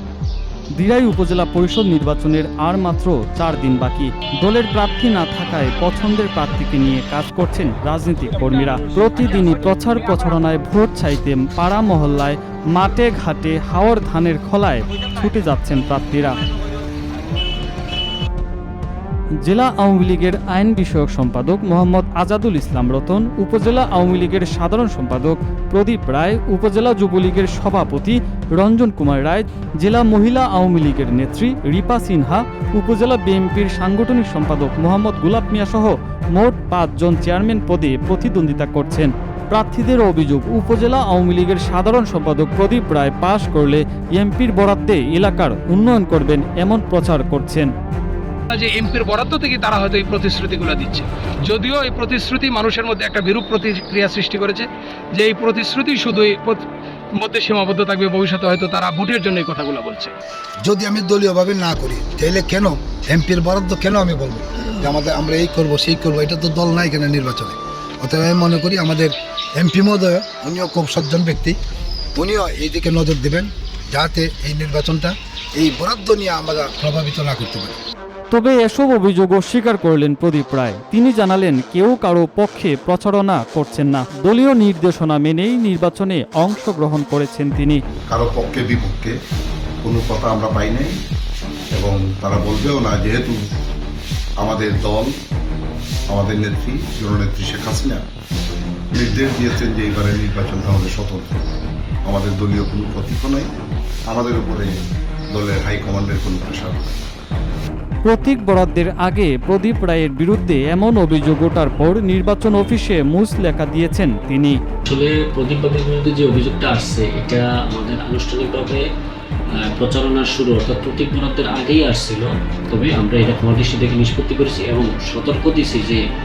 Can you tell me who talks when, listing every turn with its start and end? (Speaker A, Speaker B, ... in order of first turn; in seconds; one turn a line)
Speaker A: 0.8-16.3
Speaker A: 19.4-47.7
Speaker B: 48.5-56.6
Speaker B: 57.2-60.1
Speaker C: 60.6-71.6
Speaker C: 72.2-77.8
Speaker A: 78.3-87.8
Speaker D: 88.1-89.1
Speaker D: 89.8-91.0
Speaker D: 91.7-93.4
Speaker D: 94.4-95.1
Speaker D: 96.1-98.0
Speaker D: 98.9-101.5
Speaker D: 102.1-103.5
Speaker D: 104.1-106.8
Speaker A: 108.1-114.6
Speaker E: 114.8-118.8
Speaker E: 119.7-126.0